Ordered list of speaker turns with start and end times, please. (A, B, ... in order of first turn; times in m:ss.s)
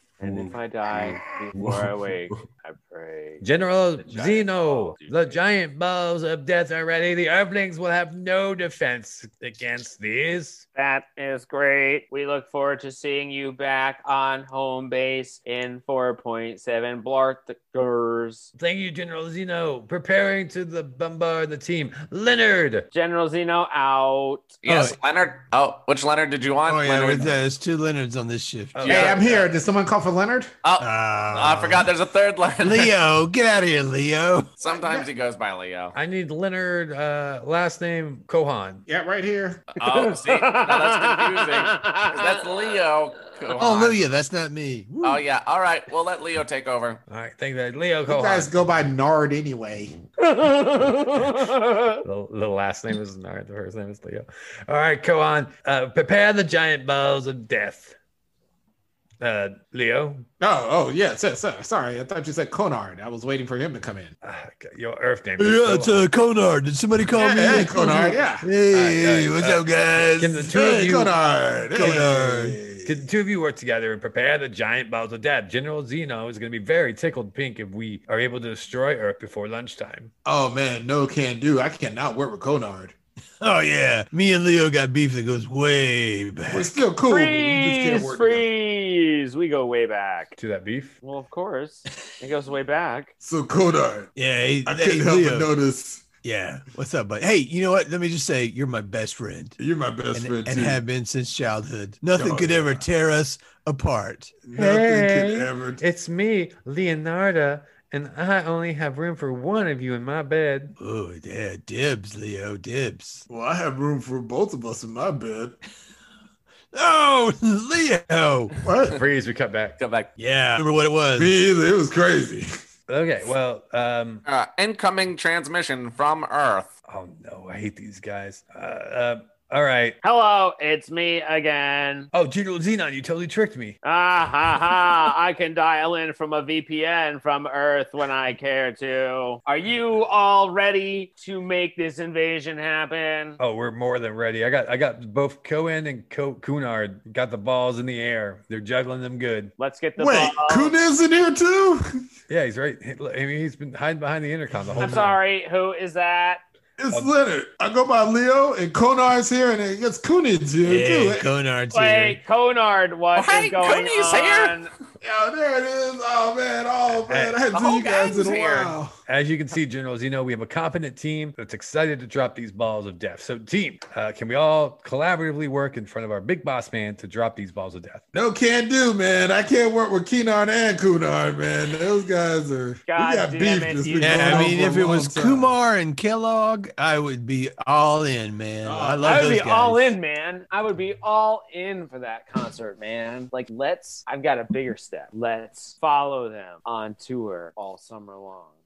0:00.2-0:03.4 A
0:00.2-0:00.5 B
0:01.5-0:01.9 B
0:03.4-0:10.6 C
0:04.0-0:05.4 A
0:10.8-0:18.5 A
0:18.6-0:22.9 C
0:22.9-0:24.6 A
0:24.6-0:27.3 B
0:24.7-0:25.0 D
0:26.6-0:28.9 D
0:28.7-0:29.4 C
0:28.8-0:29.4 B
0:28.9-0:30.5 E
0:30.6-0:32.9 B
0:30.8-0:31.9 D
0:32.6-0:34.5 D
0:34.6-0:36.0 B
0:34.7-0:35.1 E
0:35.9-0:38.8 C
0:38.9-0:39.6 E
0:39.8-0:44.0 B
0:39.8-0:42.8 A
0:43.5-0:45.2 D
0:45.0-0:47.0 B
0:47.1-0:48.5 C
0:48.1-0:50.0 E
0:50.2-0:52.0 A
0:52.0-0:58.0 C
0:59.2-1:00.2 C
1:00.4-1:04.1 E
1:04.2-1:06.1 C
1:05.4-1:11.1 D
1:07.2-1:08.5 E
1:08.7-1:11.1 C
1:10.5-1:13.0 E
1:11.6-1:12.6 D
1:11.8-1:12.1 C
1:12.8-1:20.1 C
1:20.2-1:22.9 E
1:23.4-1:26.8 D
1:26.5-1:28.4 E
1:27.1-1:30.4 A
1:30.4-1:31.0 C
1:31.0-1:33.1 A
1:33.2-1:34.1 E
1:34.2-1:35.5 D
1:34.6-1:36.0 E
1:36.2-1:39.6 D
1:39.6-1:40.8 E
1:40.1-1:44.4 D
1:42.2-1:42.8 E
1:44.5-1:45.8 E
1:44.5-1:50.8 C
1:50.8-1:53.2 D
1:53.3-1:55.6 E
1:56.7-1:58.5 D
1:58.6-1:59.0 E
1:58.9-1:59.8 C
1:59.8-2:00.1 B
2:00.2-2:01.4 D
2:01.2-2:02.5 E
2:02.9-2:04.2 C
2:04.2-2:06.7 B
2:06.9-2:10.0 C
2:10.0-2:12.1 A
2:12.1-2:13.8 C
2:13.8-2:23.4 A
2:23.4-2:29.5 C
2:29.6-2:30.8 A
2:30.0-2:31.8 E
2:32.3-2:35.2 C
2:34.5-2:34.9 D
2:34.8-2:36.4 A
2:36.8-2:41.3 E
2:40.6-2:42.2 D
2:41.7-2:44.7 A
2:43.2-2:44.5 B
2:45.0-2:49.0 E
2:46.9-2:47.4 C
2:47.5-2:48.7 A
2:49.1-2:58.0 C
2:58.1-3:05.5 E
3:02.9-3:04.6 A
3:04.0-3:10.0 D
3:08.6-3:09.2 E
3:09.0-3:18.5 A